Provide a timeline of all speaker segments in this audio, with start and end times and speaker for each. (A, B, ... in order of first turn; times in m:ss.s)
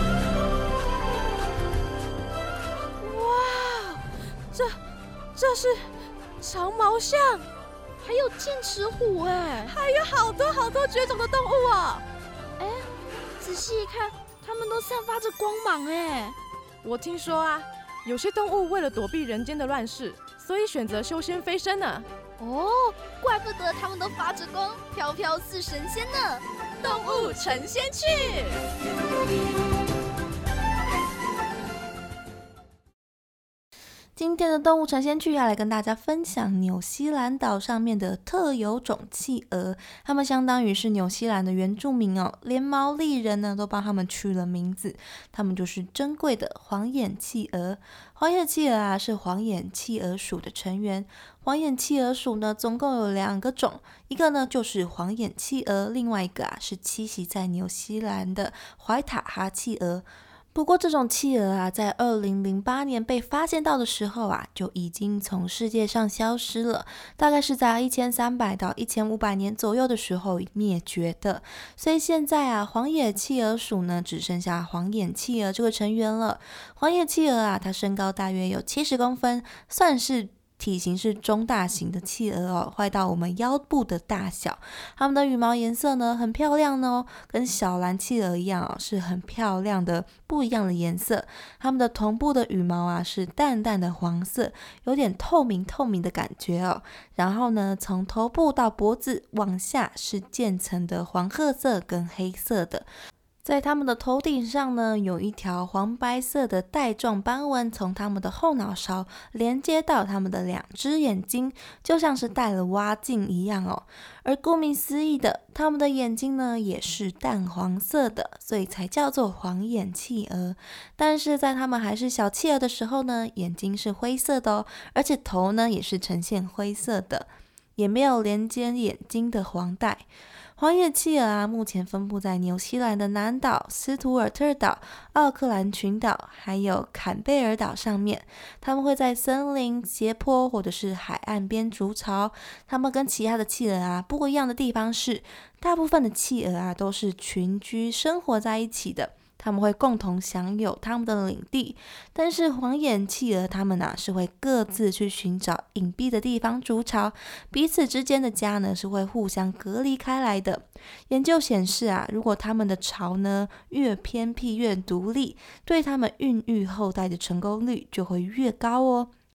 0:03.0-0:04.0 A
0:04.5-0:04.8 A
0:05.4-0:07.5 A
0:08.0-0:09.8 B
0:09.7-0:12.0 A
0:12.6-0:12.9 B
0:13.4-0:16.4 B
0:16.8-0:22.1 A
0:22.4-0:28.2 B
0:26.8-0:28.6 A
0:34.2-1:42.9 C
1:43.4-2:10.1 C
2:10.6-2:49.1 C